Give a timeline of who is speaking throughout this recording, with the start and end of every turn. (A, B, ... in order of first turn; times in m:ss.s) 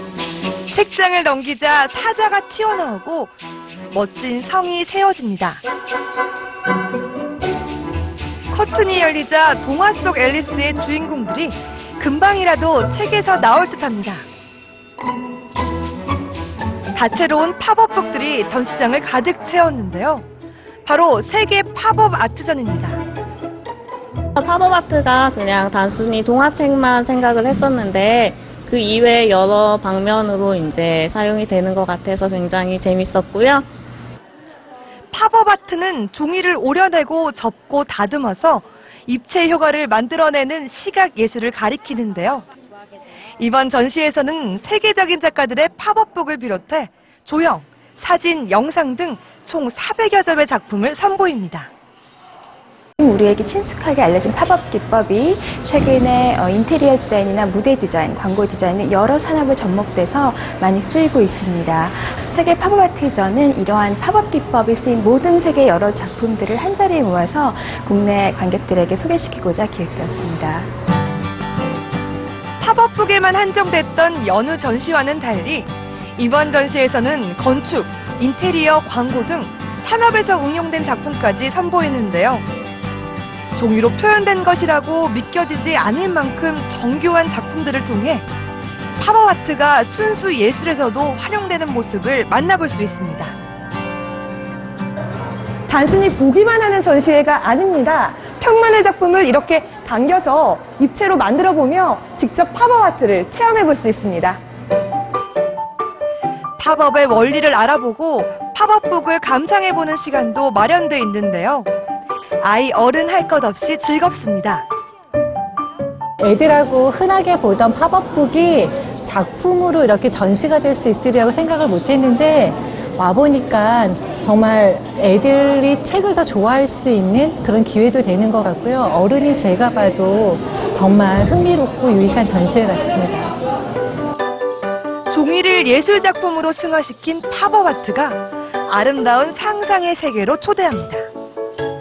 0:00.7-0:03.3 A
0:03.9-0:05.6 A
0:08.5-0:14.2 A
0:16.9-0:20.2 A
0:20.8-0:23.0 A
0:24.4-0:33.6 B
0:35.1-0:42.4 A
0:43.4-0:51.7 A
0:53.0-1:10.7 C
1:12.6-1:22.4 A
1:23.5-1:28.2 A
1:29.0-1:33.3 A
1:35.7-1:44.4 D
1:46.6-1:51.7 A
1:52.4-1:54.6 A
1:56.2-2:13.3 E
2:15.1-2:21.0 A